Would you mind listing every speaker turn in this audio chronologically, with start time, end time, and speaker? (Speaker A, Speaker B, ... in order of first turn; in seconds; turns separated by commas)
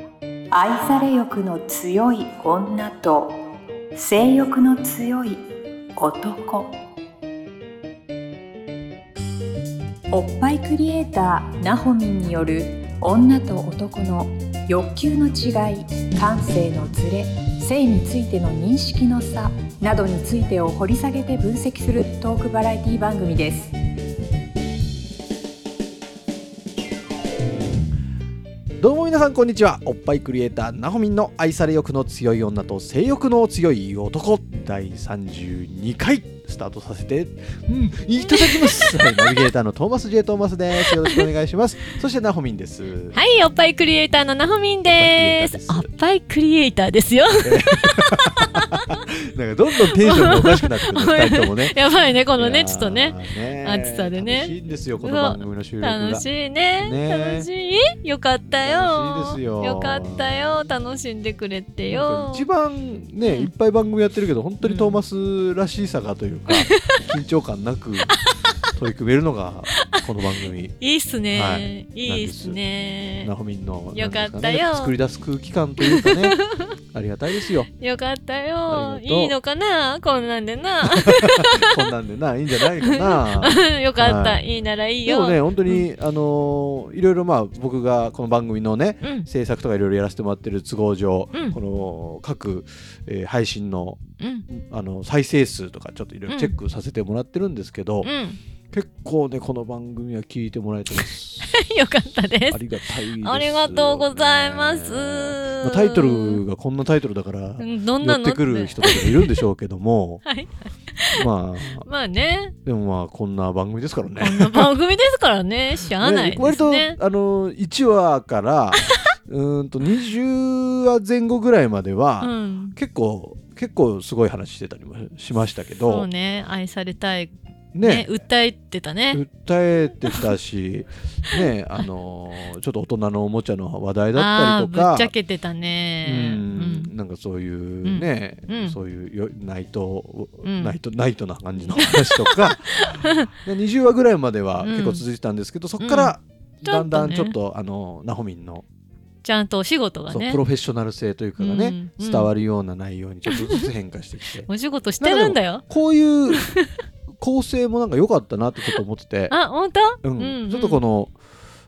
Speaker A: 0.5-3.4, Speaker A: 3.9-5.4, Speaker A: 6.0-6.8, Speaker A: 10.1-23.7, Speaker B: 28.8-43.2, Speaker C: 38.2-39.5, Speaker C: 40.8-41.3, Speaker C: 43.1-49.0, Speaker B: 44.9-45.9, Speaker B: 47.4-51.8, Speaker C: 49.8-62.5, Speaker B: 52.4-56.3, Speaker B: 56.8-57.5, Speaker B: 58.6-60.6, Speaker B: 61.9-68.1, Speaker C: 63.2-63.6, Speaker C: 64.6-65.0, Speaker C: 66.5-67.1, Speaker C: 68.0-68.8, Speaker B: 68.8-70.8, Speaker C: 69.7-73.3, Speaker B: 71.3-72.6, Speaker B: 73.2-76.4, Speaker C: 73.9-75.0, Speaker C: 75.8-76.8, Speaker B: 76.9-77.7, Speaker C: 77.3-85.9, Speaker B: 78.7-79.3, Speaker B: 80.8-84.4, Speaker B: 85.1-98.1, Speaker C: 89.0-89.3, Speaker C: 91.3-91.6, Speaker C: 94.2-94.5, Speaker C: 96.3-96.6, Speaker C: 98.0-98.4, Speaker B: 98.7-101.6, Speaker C: 100.9-106.4, Speaker B: 102.5-110.2, Speaker C: 107.6-109.5, Speaker C: 110.2-112.6, Speaker B: 111.2-111.9, Speaker B: 112.6-114.7, Speaker C: 114.2-117.0, Speaker B: 116.0-126.1, Speaker C: 118.8-119.1, Speaker C: 122.2-122.8, Speaker C: 125.7-129.3, Speaker B: 127.7-128.2, Speaker B: 129.1-135.1, Speaker C: 130.0-130.3, Speaker C: 131.3-131.9, Speaker C: 134.2-136.9, Speaker B: 136.1-148.7, Speaker C: 137.8-138.8, Speaker C: 140.4-140.8, Speaker C: 141.6-143.4, Speaker C: 144.6-145.1, Speaker C: 145.8-147.4, Speaker C: 149.2-150.4, Speaker B: 150.1-154.5, Speaker C: 151.4-152.4, Speaker C: 153.3-153.7, Speaker C: 154.5-155.7, Speaker B: 155.0-156.5, Speaker C: 156.3-156.8, Speaker B: 157.2-159.3, Speaker C: 158.7-160.8, Speaker B: 160.0-161.2